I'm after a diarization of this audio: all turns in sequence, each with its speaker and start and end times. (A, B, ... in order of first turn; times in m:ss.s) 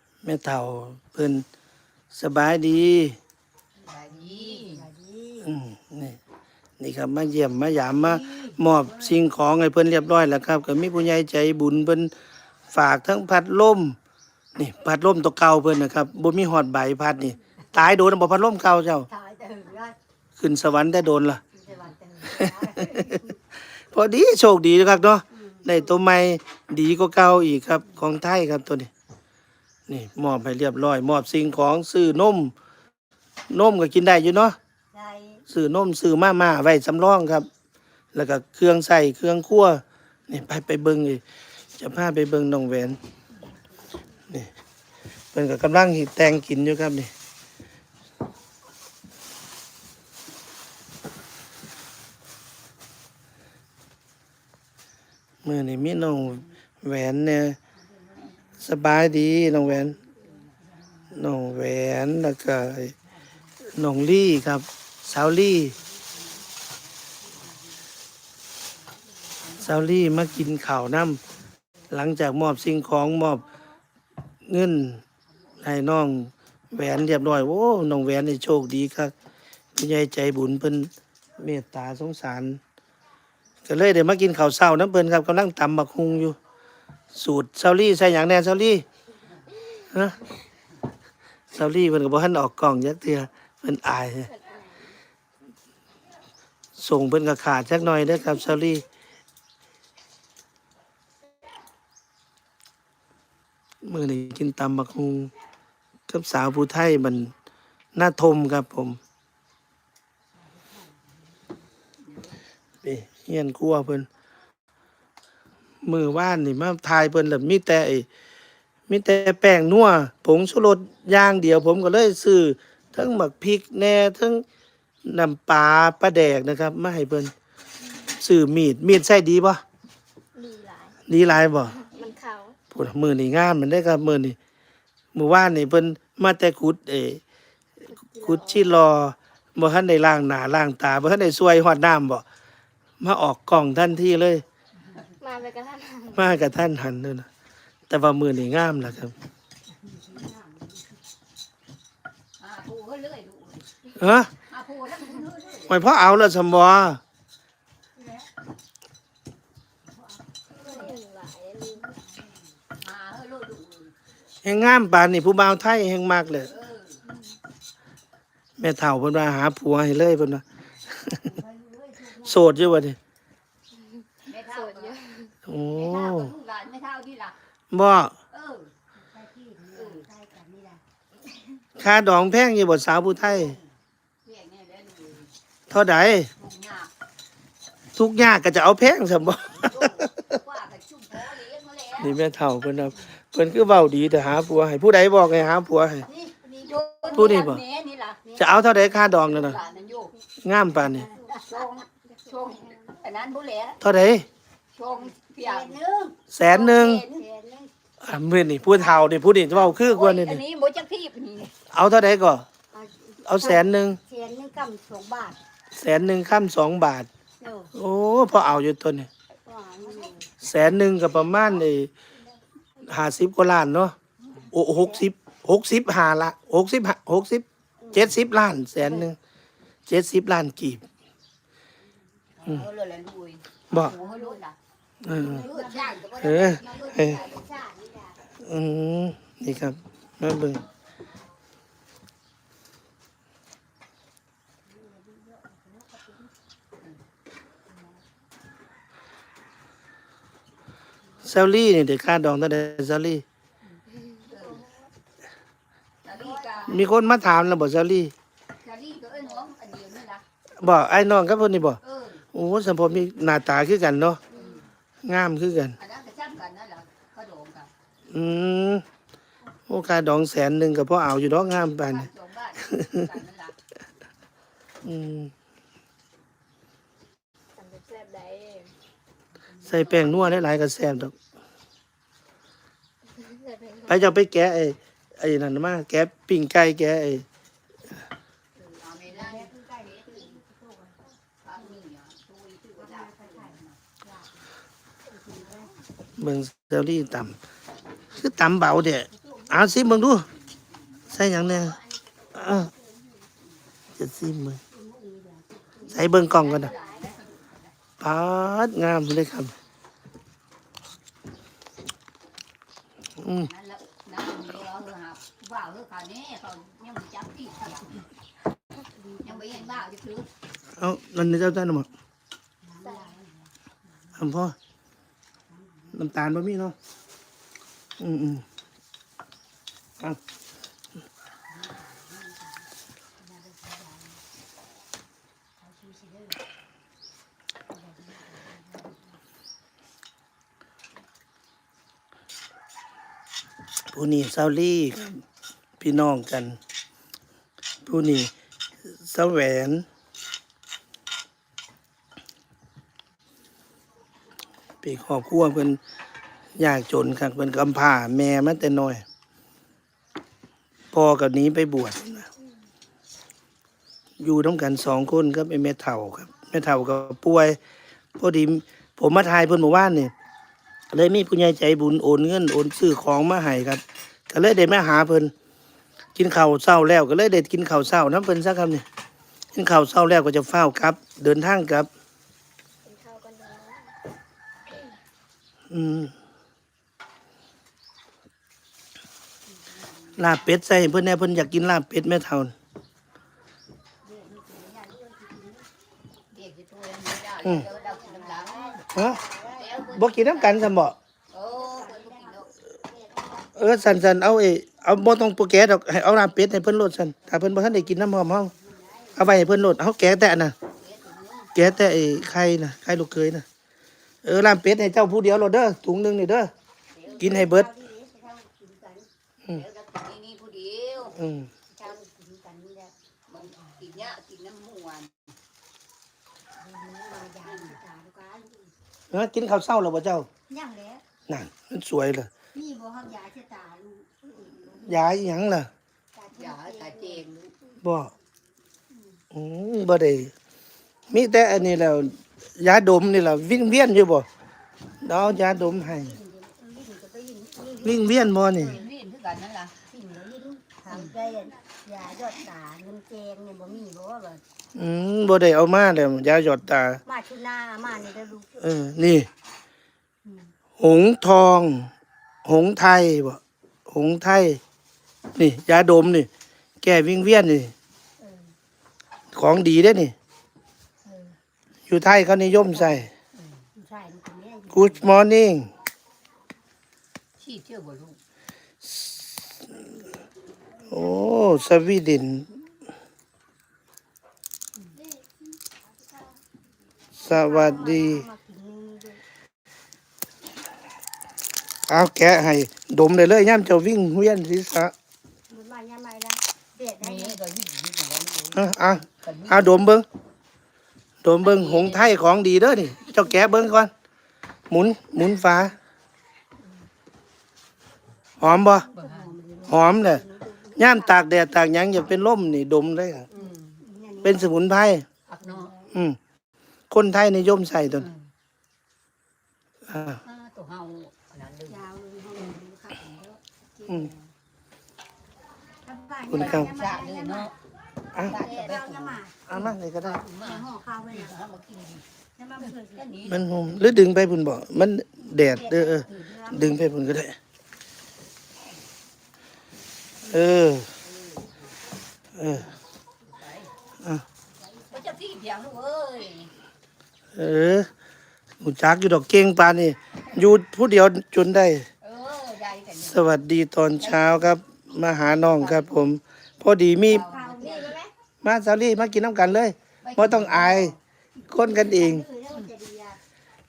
0:00.2-0:01.4 A
0:02.1-0:03.2 A
0:03.8-0:04.9 B
0:04.1-0:05.5 C
0:05.4-0:06.2 A
0:06.8-0:12.1 A
0:07.9-0:09.2 B
0:12.7-0:14.0 A
0:14.6-0:19.1 A
0:19.1-0:20.0 C
0:20.4-0:21.4 A
0:21.5-0:23.4 C
0:22.2-0:28.9 A
0:25.3-0:25.9 C
0:29.9-0:32.5 A
0:33.5-0:34.6 A
0:34.9-0:35.4 C
0:35.5-0:37.5 A
0:38.1-0:41.2 A
0:41.8-0:43.0 A
0:45.3-0:47.1 A
0:55.4-0:57.6 A
0:57.7-0:58.4 C
0:58.6-1:00.0 A
0:59.4-1:01.2 C
1:01.1-1:03.0 A
1:03.6-1:05.8 A
1:05.7-1:06.5 C
1:07.2-1:07.6 C
1:09.6-1:11.2 A
1:11.9-1:13.5 A
1:14.4-1:15.0 A
1:15.6-1:19.1 A
1:19.8-1:22.6 A
1:23.6-1:26.4 A
1:27.1-1:28.8 A
1:29.9-1:30.2 A
1:31.5-1:34.3 A
1:34.3-1:35.0 D
1:36.8-1:38.8 A
1:43.8-1:45.3 A
1:46.1-1:47.3 A
1:47.9-1:49.0 A
1:50.4-1:51.5 C
1:52.0-1:52.4 B
1:52.8-1:54.1 A
1:55.8-1:58.1 A
1:58.9-2:04.4 A
2:05.0-2:07.3 A
2:08.2-2:09.6 A
2:10.4-2:11.0 D
2:11.1-2:11.8 A
2:11.8-2:12.6 D
2:12.7-2:14.4 A
2:15.1-2:17.2 A
2:17.9-2:18.7 D
2:18.2-2:22.2 A
2:23.0-2:24.4 A
2:25.2-2:26.2 D
2:26.1-2:27.3 A
2:27.9-2:29.1 A
2:29.8-2:31.0 C
2:32.4-2:33.7 B
2:34.0-2:34.3 A
2:34.4-2:35.8 B
2:35.7-2:37.0 A
2:38.0-2:38.3 C
2:39.8-2:40.9 C
2:40.6-2:41.9 D
2:41.8-2:42.4 C
2:42.8-2:43.9 B
2:44.4-2:46.5 A
2:46.4-2:47.0 B
2:47.0-2:47.4 D
2:48.6-2:51.2 A
2:51.1-2:52.7 C
2:52.2-2:53.0 A
2:53.7-2:55.3 D
2:54.2-2:55.1 B
2:55.4-2:56.3 A
2:55.7-2:57.4 B
2:57.7-2:58.2 A
2:58.3-2:58.7 B
2:59.0-3:00.8 C
2:59.7-3:00.0 B
3:01.8-3:03.6 A
3:04.2-3:05.3 B
3:05.7-3:06.3 A
3:06.4-3:06.9 B
3:08.0-3:10.0 A
3:09.6-3:12.2 B
3:12.0-3:16.1 A
3:16.0-3:17.4 C
3:16.6-3:18.2 B
3:17.1-3:17.6 A
3:18.2-3:19.8 C
3:18.4-3:19.6 A
3:19.2-3:20.1 B
3:20.4-3:21.1 A
3:20.8-3:21.4 C
3:21.3-3:23.8 B
3:23.8-3:24.3 A
3:24.7-3:25.8 B
3:25.2-3:26.2 C
3:26.3-3:27.0 A
3:26.5-3:27.2 B
3:27.1-3:27.7 C
3:28.0-3:30.4 A
3:28.6-3:29.2 C
3:29.5-3:31.5 B
3:31.7-3:32.4 A
3:32.7-3:35.4 C
3:33.2-3:34.0 A
3:35.7-3:37.1 A
3:37.4-3:37.7 C
3:37.7-3:39.1 A
3:39.4-3:40.2 C
3:40.4-3:41.9 A
3:42.8-3:43.9 A
3:44.5-3:45.0 C
3:44.5-3:49.2 A
3:47.8-3:48.1 C
3:48.8-3:49.1 C
3:49.9-3:50.8 A
3:52.4-3:54.6 B
3:53.9-3:54.4 C
3:55.0-3:55.4 A
3:55.0-3:58.2 C
3:55.1-3:57.5 B
3:56.2-3:57.2 A
3:58.4-4:00.6 A
4:04.6-4:06.3 C
4:07.7-4:08.0 C
4:11.2-4:13.2 A
4:14.0-4:14.3 D
4:14.2-4:14.6 B
4:14.6-4:14.9 C
4:16.0-4:16.8 B
4:16.1-4:16.9 C
4:16.7-4:18.1 A
4:18.6-4:20.2 B
4:20.6-4:21.8 A
4:21.8-4:22.2 B
4:22.3-4:24.2 A
4:24.3-4:24.6 B
4:25.0-4:25.8 A
4:25.8-4:27.7 B
4:28.1-4:28.8 A
4:29.7-4:32.1 A
4:31.7-4:33.6 B
4:34.8-4:35.3 A
4:37.6-4:38.7 D
4:39.6-4:40.4 B
4:39.6-4:41.1 A
4:43.1-4:44.0 D
4:43.9-4:47.2 A
4:48.6-4:50.4 B
4:49.1-4:51.7 C
4:51.4-4:53.8 B
4:52.8-4:54.4 C
4:55.0-4:55.7 C
4:56.2-4:57.4 A
4:58.1-5:00.3 A
4:59.0-4:59.8 C
5:00.1-5:02.1 B
5:01.1-5:01.8 A
5:02.3-5:02.7 A
5:04.0-5:04.6 A
5:04.7-5:07.1 C
5:05.8-5:06.7 A
5:06.1-5:07.7 B
5:08.0-5:09.5 A
5:13.2-5:13.5 A
5:13.3-5:18.0 B
5:18.9-5:19.9 C
5:19.2-5:20.3 B
5:20.8-5:21.9 A
5:22.6-5:23.5 C
5:24.2-5:24.6 A
5:25.5-5:26.0 C
5:25.9-5:26.8 A
5:28.0-5:28.4 A
5:31.5-5:32.6 C
5:33.2-5:34.2 C
5:35.6-5:36.4 C
5:37.7-5:39.0 C
5:43.9-5:45.2 A
5:45.8-5:46.6 A
5:47.8-5:48.3 A
5:48.9-5:49.8 A
5:54.8-5:55.8 A
5:56.6-5:59.0 A
6:00.9-6:02.3 A
6:04.2-6:07.6 A
6:08.2-6:10.1 A
6:10.9-6:15.3 A
6:16.2-6:18.8 A
6:19.5-6:21.9 A
6:22.8-6:23.9 D
6:24.7-6:25.0 D
6:25.7-6:26.1 A
6:29.6-6:30.3 C
6:30.2-6:32.5 A
6:34.0-6:35.7 C
6:36.3-6:38.8 B
6:37.6-6:40.2 C
6:38.9-6:39.2 A
6:39.5-6:40.7 B
6:39.9-6:41.0 A
6:41.3-6:42.5 B
6:41.5-6:43.5 C
6:43.5-6:48.5 A
6:47.4-6:49.4 C
6:49.2-6:50.5 A
6:50.7-6:51.5 B
6:51.5-6:53.4 A
6:54.2-6:56.5 A
6:56.9-6:57.5 B
6:57.0-6:59.1 C
6:57.2-6:57.7 A
6:59.5-7:01.2 B
7:01.2-7:01.5 A
7:01.7-7:02.9 C
7:03.3-7:05.3 B
7:03.4-7:03.9 C
7:06.6-7:08.7 C
7:07.4-7:07.8 B
7:09.1-7:10.3 A
7:10.5-7:11.0 C
7:11.3-7:12.3 A
7:12.5-7:15.2 C
7:14.8-7:15.7 A
7:16.1-7:17.2 C
7:16.3-7:17.5 B
7:17.8-7:18.1 A
7:18.9-7:19.2 C
7:19.3-7:20.3 A
7:21.1-7:24.3 A
7:25.0-7:26.2 A
7:25.2-7:28.9 C
7:27.8-7:28.8 A
7:28.6-7:29.7 B
7:29.9-7:34.4 C
7:30.9-7:31.1 B
7:34.7-7:37.0 A
7:37.0-7:38.6 C
7:38.6-7:39.3 A
7:40.2-7:40.5 C
7:40.8-7:41.9 A
7:42.4-7:44.6 A
7:45.3-7:46.3 A
7:46.8-7:47.7 A
7:48.2-7:48.5 C
7:49.3-7:50.1 A
7:51.0-7:51.3 C
7:51.9-7:53.1 A
7:52.7-7:53.0 C
7:53.7-7:55.2 C
7:54.7-7:55.7 A
7:57.4-7:58.2 B
7:58.8-7:59.6 A
8:00.9-8:02.5 A
8:07.1-8:08.3 A
8:07.2-8:09.2 C
8:11.9-8:14.9 A
8:15.5-8:17.4 C
8:17.0-8:19.8 B
8:18.5-8:20.0 A
8:21.2-8:23.9 A
8:21.4-8:22.3 B
8:24.7-8:25.8 A
8:28.4-8:28.9 A
8:28.7-8:31.0 C
8:28.9-8:29.3 B
8:29.6-8:30.2 A
8:30.7-8:33.3 A
8:33.3-8:33.8 B
8:33.8-8:34.6 C
8:34.2-8:35.1 A
8:35.3-8:35.7 B
8:35.4-8:35.9 C
8:35.9-8:36.2 A
8:36.9-8:38.1 A
8:37.9-8:38.2 B
8:39.9-8:40.2 A
8:40.2-8:41.8 B
8:41.7-8:44.2 C
8:45.8-8:47.5 C
8:46.3-8:46.7 A
8:46.3-8:47.5 B
8:48.1-8:52.0 B
8:48.3-8:49.5 C
8:49.4-8:50.2 A
8:50.2-8:51.4 C
8:52.4-8:53.1 C
8:52.6-8:53.7 B
8:53.3-8:57.4 A
8:55.3-8:56.9 C
9:00.2-9:00.9 A
9:01.0-9:01.7 B
9:02.4-9:02.7 A
9:03.2-9:03.7 B
9:04.5-9:05.2 C
9:04.9-9:06.5 B
9:07.3-9:07.9 A
9:08.6-9:11.9 A
9:12.0-9:13.3 B
9:13.0-9:17.3 A
9:14.0-9:14.5 B
9:15.4-9:16.1 B
9:17.0-9:17.9 B
9:17.1-9:18.0 C
9:17.6-9:18.1 D
9:18.4-9:20.9 A
9:20.0-9:20.8 B
9:20.4-9:23.2 C
9:21.5-9:22.3 A